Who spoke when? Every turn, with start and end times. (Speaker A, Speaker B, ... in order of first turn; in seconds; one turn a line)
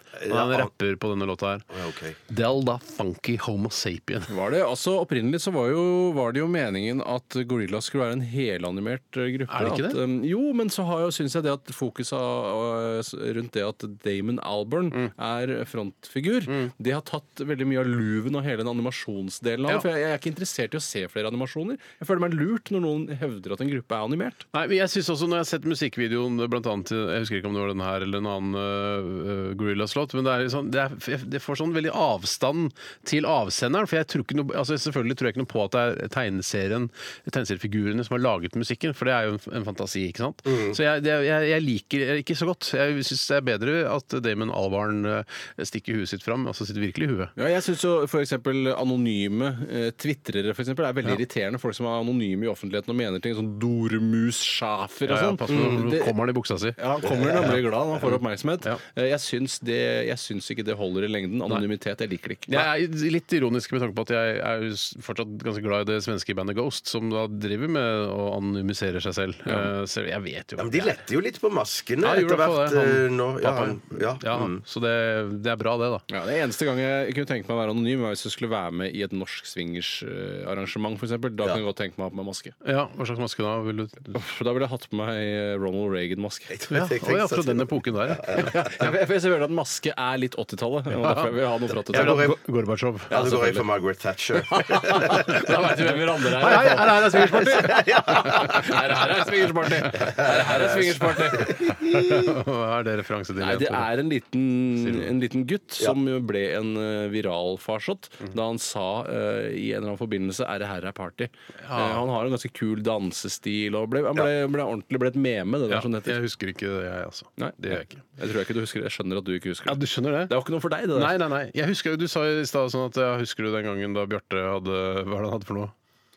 Speaker A: 0.2-0.7
Speaker B: 0.3-1.7
Speaker A: 1.7-2.2
Speaker B: 2.3-4.3
Speaker C: 4.3-24.4
Speaker B: 9.5-10.0
Speaker B: 16.5-16.7
Speaker B: 24.5-47.3
Speaker A: 40.5-40.8
Speaker C: 47.4-56.1
Speaker B: 55.1-56.8
Speaker A: 55.5-55.8
Speaker C: 56.8-62.7
Speaker A: 57.1-57.6
Speaker B: 62.5-71.0
Speaker A: 70.6-74.6
Speaker B: 72.0-76.0
Speaker C: 76.1-82.5
Speaker B: 82.6-84.2
Speaker C: 84.1-86.5
Speaker A: 86.5-88.8
Speaker B: 86.7-88.6
Speaker C: 88.4-92.3
Speaker B: 90.9-93.5
Speaker A: 91.9-92.4
Speaker C: 93.1-93.6
Speaker A: 93.1-95.4
Speaker C: 94.5-101.6
Speaker B: 96.3-98.6
Speaker A: 97.3-98.7
Speaker B: 99.8-103.9
Speaker A: 99.9-102.1
Speaker C: 103.4-116.2
Speaker B: 104.7-105.1
Speaker B: 111.6-112.1
Speaker B: 115.7-118.0
Speaker C: 117.4-121.2
Speaker B: 119.7-120.3
Speaker B: 120.9-125.7